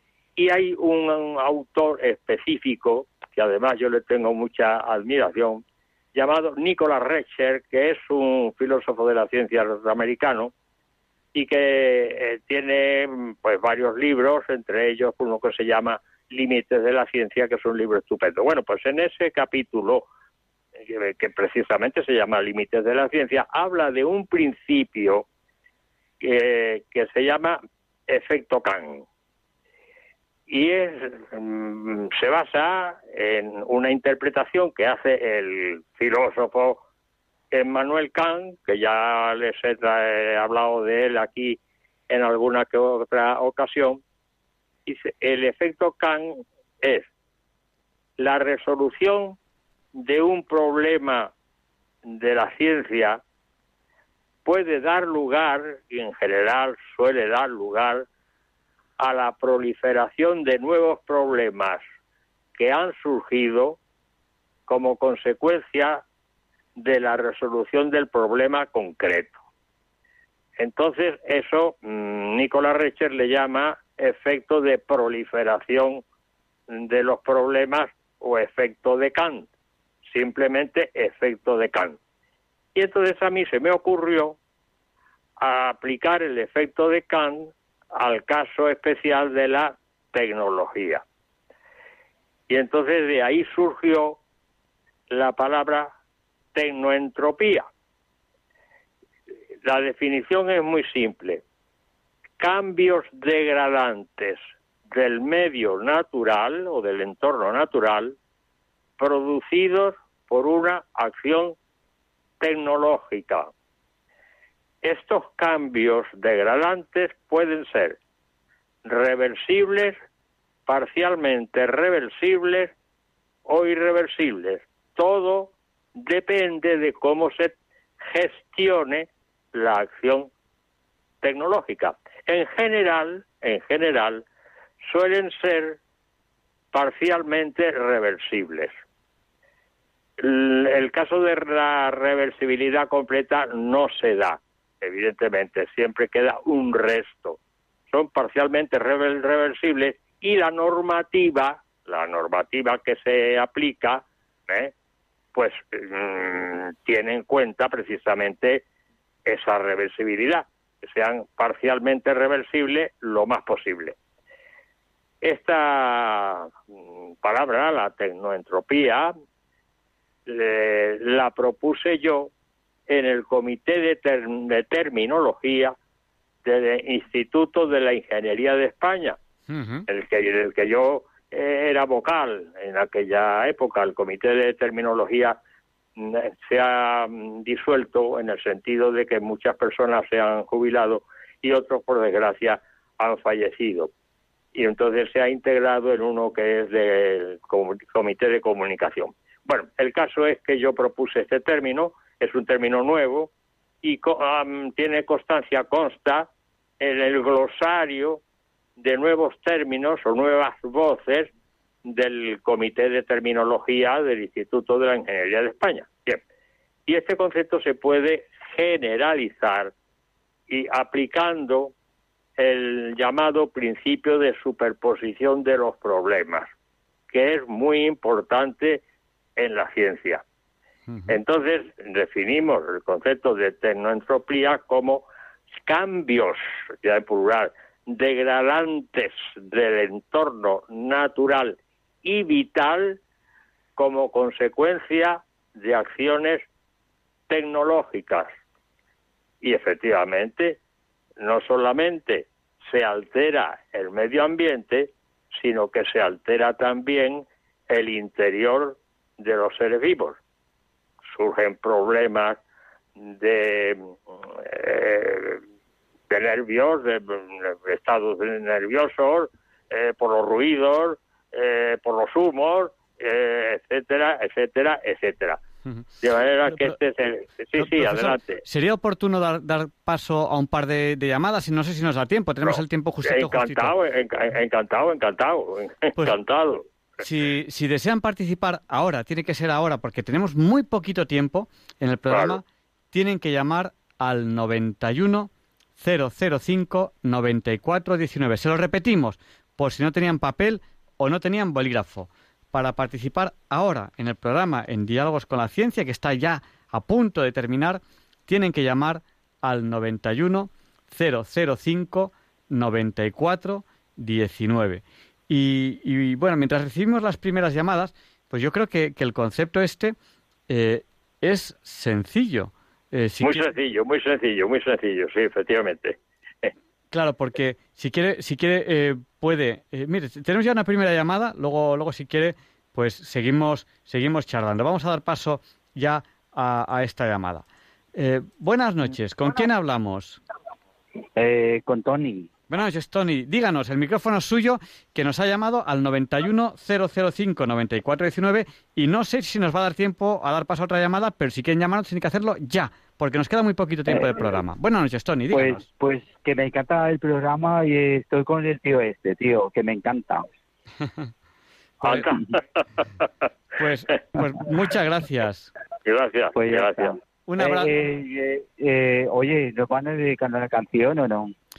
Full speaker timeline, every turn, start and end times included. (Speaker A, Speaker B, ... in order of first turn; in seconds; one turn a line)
Speaker A: 0.4-5.6
Speaker A: 6.1-10.5
Speaker A: 11.3-20.1
Speaker A: 20.9-25.3
Speaker A: 26.2-29.1
Speaker A: 30.5-36.8
Speaker A: 37.5-41.6
Speaker A: 42.1-44.0
Speaker A: 44.9-47.1
Speaker A: 48.2-49.4
Speaker A: 50.0-51.3
Speaker A: 52.1-53.2
Speaker A: 54.5-58.1
Speaker A: 59.0-61.8
Speaker A: 62.6-63.8
Speaker A: 64.7-66.0
Speaker A: 66.8-69.4
Speaker A: 70.6-76.0
Speaker A: 76.7-79.5
Speaker A: 80.1-82.0
Speaker A: 82.8-84.4
Speaker A: 85.4-91.0
Speaker A: 92.5-94.2
Speaker A: 95.1-95.9
Speaker A: 96.5-97.7
Speaker A: 99.7-101.4
Speaker A: 102.4-108.2
Speaker A: 109.0-111.6
Speaker A: 112.4-113.5
Speaker A: 114.8-118.0
Speaker A: 118.8-120.0
Speaker A: 120.7-122.7
Speaker A: 123.5-130.3
Speaker A: 131.2-134.2
Speaker A: 134.9-135.8
Speaker A: 136.7-138.8
Speaker A: 140.2-147.4
Speaker A: 147.9-154.7
Speaker A: 155.3-158.6
Speaker A: 159.3-164.0
Speaker A: 165.2-166.5
Speaker A: 167.2-169.1
Speaker A: 170.3-172.3
Speaker A: 172.9-175.8
Speaker A: 176.4-179.2
Speaker B: 179.5-179.9
Speaker A: 179.9-185.4
Speaker A: 186.0-193.9
Speaker A: 194.5-203.3
Speaker A: 203.8-206.3
Speaker A: 206.8-208.2
Speaker A: 208.8-211.3
Speaker A: 211.9-216.2
Speaker A: 216.9-219.7
Speaker A: 220.5-221.7
Speaker A: 222.4-226.5
Speaker A: 227.1-228.8
Speaker A: 229.4-230.2
Speaker A: 231.1-235.1
Speaker A: 235.7-243.0
Speaker A: 243.8-246.5
Speaker A: 247.3-248.3
Speaker A: 249.4-250.6
Speaker A: 251.2-260.2
Speaker A: 261.1-262.4
Speaker A: 263.0-265.4
Speaker A: 266.1-275.4
Speaker A: 276.0-278.4
Speaker B: 276.5-276.8
Speaker B: 277.5-283.8
Speaker A: 282.4-286.6
Speaker B: 287.0-319.9
Speaker A: 292.1-292.4
Speaker B: 320.5-323.5
Speaker A: 323.2-326.5
Speaker B: 326.9-340.2
Speaker C: 341.2-342.3
Speaker B: 342.5-355.6
Speaker C: 353.9-354.4
Speaker C: 355.3-360.3
Speaker B: 361.8-362.1
Speaker A: 361.9-363.1
Speaker B: 363.6-365.5
Speaker A: 365.9-366.9
Speaker C: 366.4-371.4
Speaker B: 367.3-367.7